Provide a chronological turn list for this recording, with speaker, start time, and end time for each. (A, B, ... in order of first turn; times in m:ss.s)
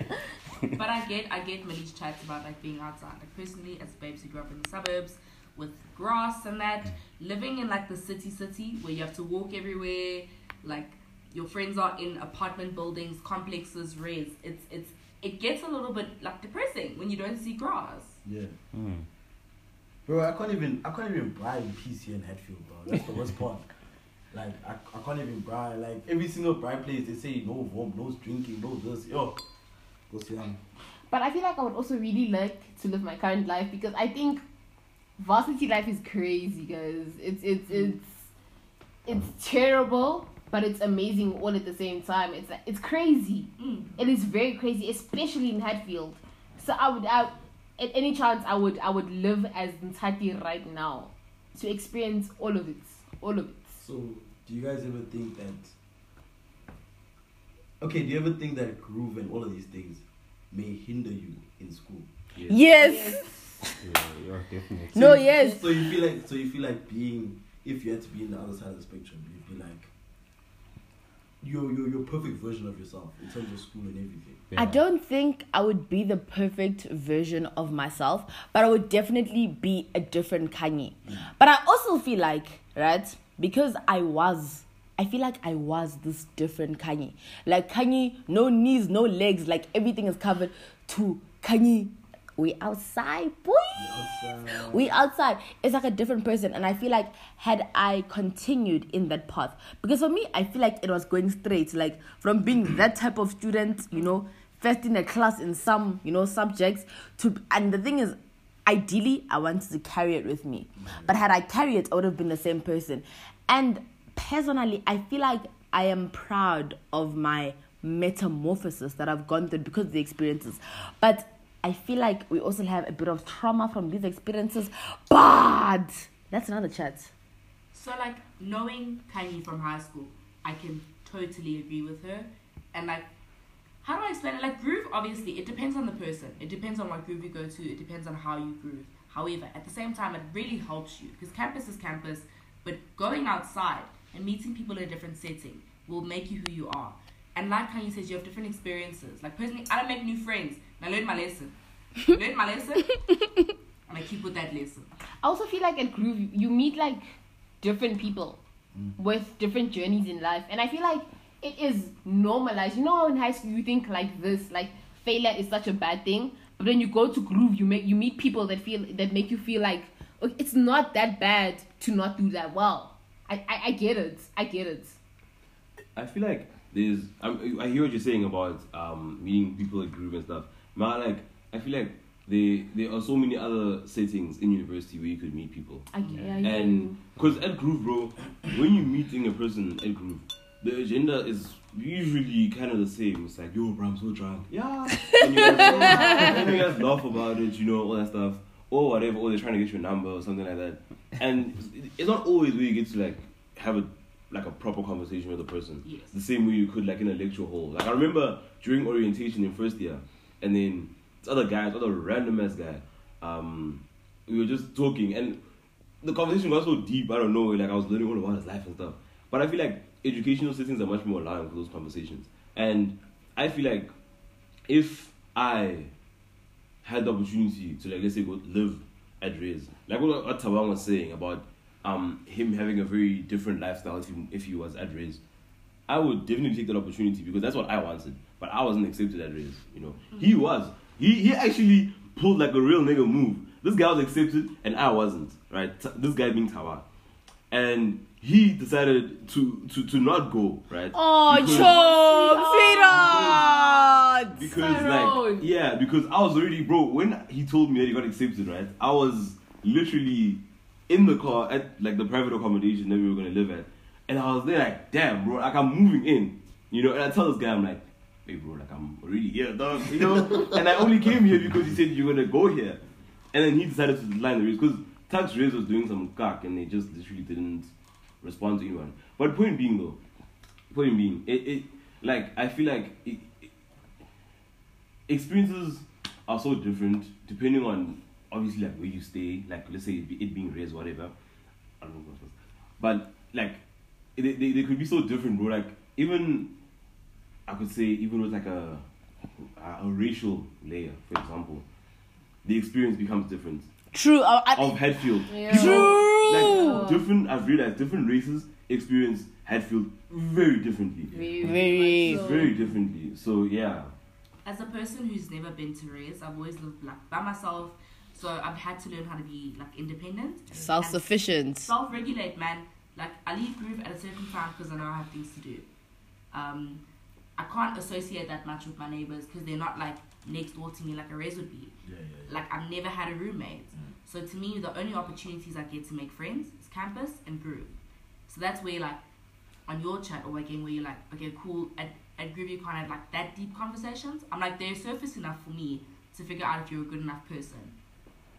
0:00.7-0:18.2 A
0:18.2-0:18.6 B
0:18.7-0:19.1 C
0:20.1-0:23.7 B
0:24.3-0:29.4 B
0:30.1-0:30.6 B
0:31.1-0:34.4 D
0:35.2-0:38.3 D
0:39.0-0:53.8 D
0:43.6-0:43.9 A
0:53.8-0:55.7 B
0:57.8-1:02.1 B
1:02.4-1:02.6 E
1:02.5-1:03.7 F
1:02.7-1:03.5 D
1:03.8-1:05.2 C
1:04.9-1:05.9 F
1:05.0-1:09.9 B
1:11.4-1:14.4 B
1:14.5-1:14.8 C
1:14.6-1:33.8 F
1:33.7-1:34.9 B
1:34.7-2:07.1 F
1:50.8-1:51.2 B
2:07.7-2:13.1 A
2:13.8-2:31.6 A
2:32.1-2:32.9 A
2:33.9-2:34.9 A
2:35.2-2:37.1 D
2:37.6-2:38.4 D
2:39.0-2:55.0 D
2:56.0-3:13.8 E
3:05.9-3:07.0 D
3:13.6-3:14.5 B
3:14.5-3:35.4 E
3:15.2-3:16.8 B
3:25.8-3:26.1 A
3:36.0-3:43.9 E
3:44.7-3:45.9 E
3:46.8-3:55.2 E
3:55.9-4:06.9 E
4:07.5-4:11.8 E
4:10.9-4:14.5 F
4:11.3-4:15.5 D
4:12.8-4:13.5 E
4:14.4-4:32.8 E
4:29.9-4:30.6 B
4:33.3-4:37.7 E
4:38.2-4:40.0 E
4:40.7-4:43.5 E
4:45.1-4:51.2 E
4:51.8-4:53.6 E
4:54.2-4:56.5 E
4:57.5-4:58.8 E
4:59.4-5:01.6 E
5:02.4-5:03.7 E
5:03.9-5:04.8 F
5:04.5-5:13.9 E
5:05.3-5:07.1 D
5:05.4-5:06.8 F
5:11.1-5:12.8 D
5:11.4-5:12.4 F
5:14.4-5:21.1 A
5:20.6-5:21.7 F
5:21.6-5:25.7 A
5:26.3-5:26.8 A
5:27.4-5:31.7 A
5:31.8-5:32.4 B
5:32.3-5:37.8 A
5:38.3-5:39.0 A
5:39.7-5:47.8 A